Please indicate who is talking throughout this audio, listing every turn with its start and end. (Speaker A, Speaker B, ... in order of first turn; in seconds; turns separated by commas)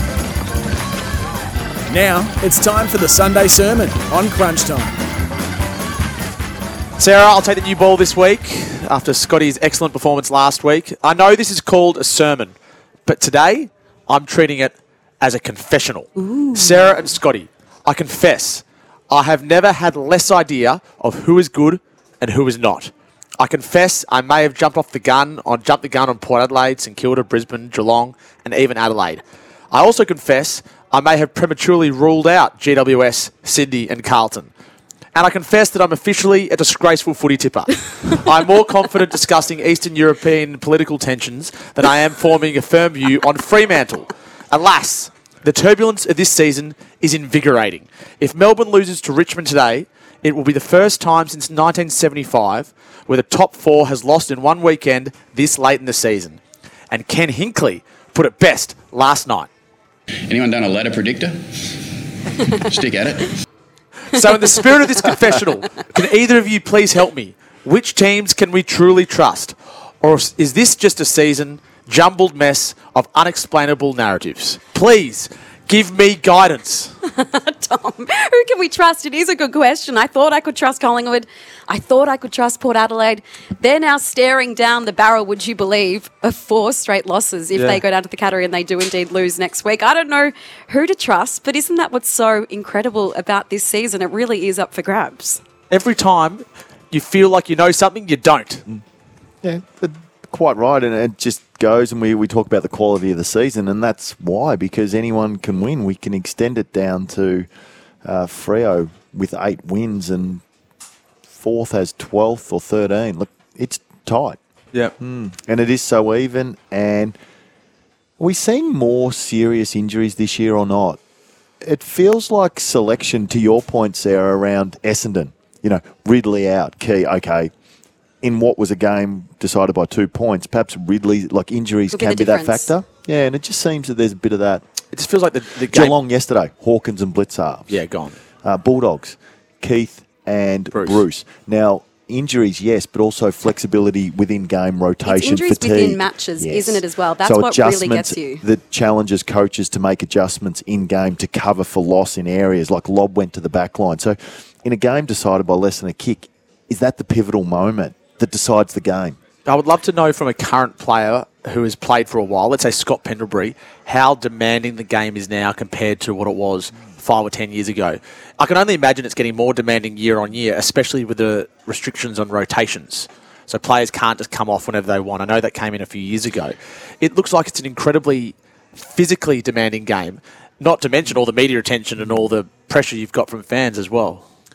Speaker A: 1.9-4.9, Speaker B: 7.0-12.5, Speaker B: 13.1-34.5, Speaker B: 35.1-56.4, Speaker B: 56.9-59.5, Speaker C: 60.3-61.9, Speaker C: 62.4-63.4, Speaker B: 64.1-76.9, Speaker D: 77.0-95.4, Speaker B: 87.5-87.8, Speaker B: 95.7-98.6, Speaker E: 99.4-107.5, Speaker E: 108.0-110.4, Speaker E: 111.3-114.4, Speaker E: 115.0-117.2, Speaker E: 118.2-121.0, Speaker E: 121.6-127.5, Speaker E: 128.2-134.6, Speaker D: 131.9-132.7, Speaker B: 134.9-135.9, Speaker E: 135.7-137.7, Speaker B: 137.7-138.2, Speaker E: 138.4-159.2, Speaker B: 140.7-141.0, Speaker D: 145.0-148.4, Speaker B: 159.4-184.2